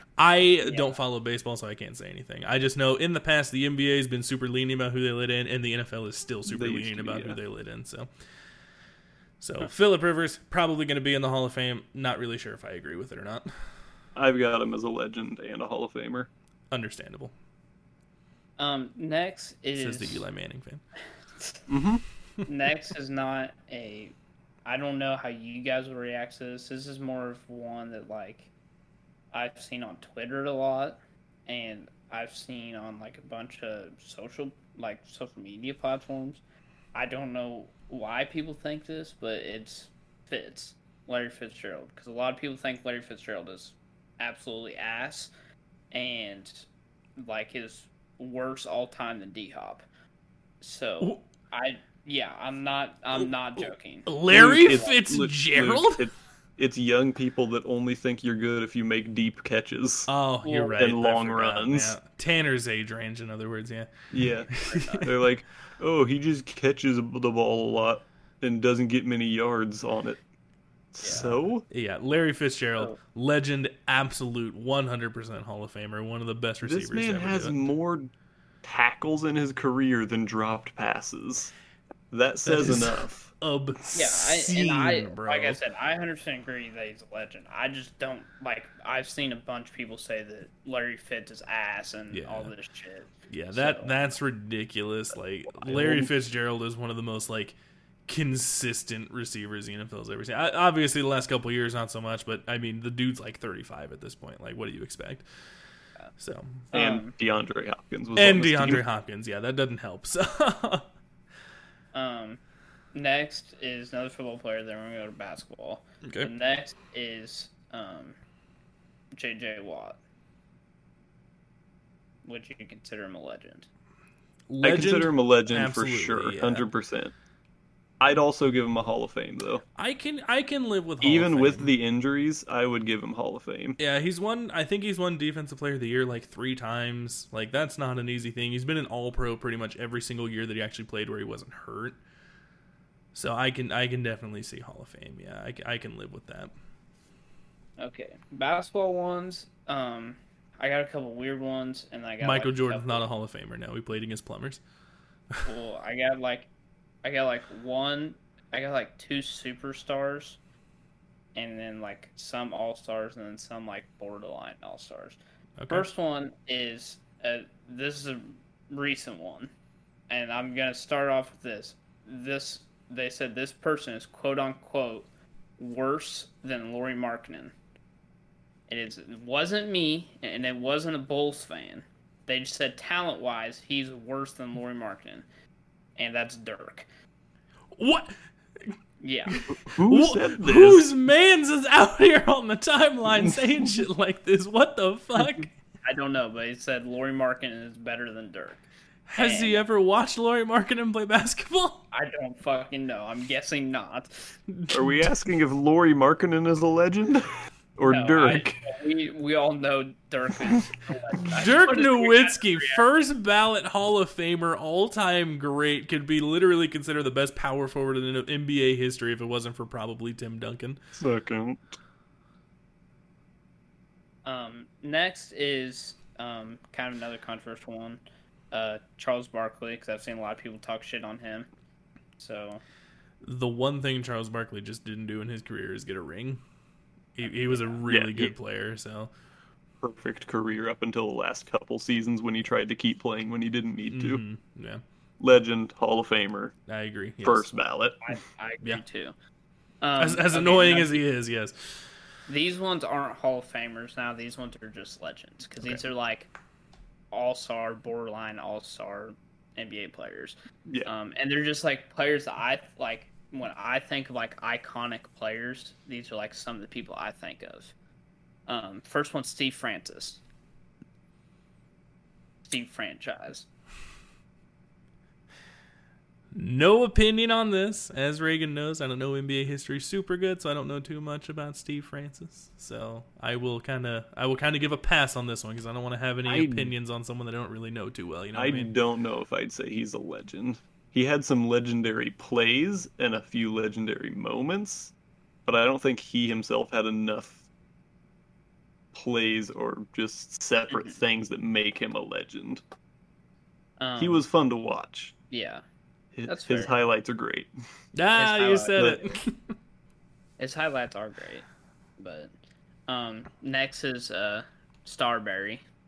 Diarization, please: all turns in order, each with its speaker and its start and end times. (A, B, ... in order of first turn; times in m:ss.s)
0:00.2-0:08.1 A
0:00.6-0:00.9 B
0:06.5-0:07.4 C
0:09.4-0:13.5 A
0:14.1-0:16.3 C
0:16.7-0:17.3 A
0:18.6-0:20.2 B
0:19.8-0:20.8 A
0:21.7-0:22.0 C
0:22.4-0:24.1 B
0:24.6-0:28.5 B
0:29.3-0:36.4 B
0:36.9-0:45.3 B
0:45.9-0:49.8 B
0:50.6-0:55.0 B
0:53.6-0:56.1 A
0:54.3-1:00.1 C
1:00.1-1:05.1 A
1:00.4-1:00.8 B
1:00.8-1:01.9 C
1:04.1-1:10.2 C
1:04.7-1:05.1 B
1:10.9-1:11.6 C
1:11.0-1:17.6 A
1:16.6-1:18.1 C
1:18.6-1:21.5 C
1:22.1-1:23.3 C
1:22.4-1:25.6 A
1:23.9-1:33.9 B
1:32.1-1:32.5 A
1:33.3-1:37.6 A
1:35.6-1:36.1 C
1:38.1-1:45.2 A
1:46.2-1:46.7 A
1:46.7-1:47.1 B
1:46.7-1:48.8 C
1:48.2-1:50.9 A
1:51.9-1:52.4 B
1:52.9-1:58.2 B
1:56.0-1:56.3 A
1:59.1-2:00.0 B
2:02.2-2:03.7 B
2:04.5-2:06.7 A
2:04.6-2:07.1 C
2:08.0-2:09.6 C
2:09.8-2:11.7 A
2:11.0-2:13.8 C
2:13.8-2:22.0 A
2:23.1-2:26.5 A
2:27.8-2:33.1 B
2:32.2-2:34.6 A
2:35.4-2:36.5 B
2:37.0-2:40.4 B
2:41.3-2:45.2 B
2:45.6-2:45.9 A
2:45.7-2:49.5 B
2:50.1-2:57.5 B
2:58.7-3:05.2 B
3:06.0-3:06.9 B
3:07.8-3:08.7 A
3:09.0-3:09.5 B
3:09.3-3:15.5 A
3:09.5-3:10.9 C
3:15.8-3:18.6 B
3:19.1-3:21.8 A
3:19.2-3:19.6 B
3:21.9-3:24.3 B
3:24.5-3:25.1 A
3:24.7-3:28.5 C
3:27.8-3:32.8 B
3:31.3-3:40.8 A
3:41.0-3:41.6 C
3:44.2-3:51.5 B
3:52.2-3:52.6 B
3:53.2-3:56.4 A
3:57.2-3:59.1 A
3:57.2-3:57.8 B
3:57.9-3:58.3 C
3:59.8-4:04.2 C
4:03.9-4:04.8 A
4:05.2-4:06.5 C
4:06.7-4:07.5 A
4:07.2-4:08.0 C
4:08.0-4:09.1 B
4:09.8-4:11.0 B
4:10.0-4:11.9 A
4:12.3-4:16.3 B
4:17.1-4:27.7 B
4:28.5-4:30.2 B
4:32.4-4:33.5 B
4:36.3-4:48.7 A
4:46.2-4:46.7 C
4:48.3-4:54.9 C
4:55.4-4:57.4 C
4:58.9-5:02.6 C
5:00.7-5:01.0 B
5:03.8-5:04.2 B
5:04.0-5:05.1 C
5:05.3-5:05.6 B
5:06.1-5:07.5 C
5:06.2-5:06.7 B
5:07.9-5:09.5 A
5:08.1-5:09.0 B
5:10.4-5:11.4 B
5:12.0-5:12.3 B
5:12.9-5:15.6 B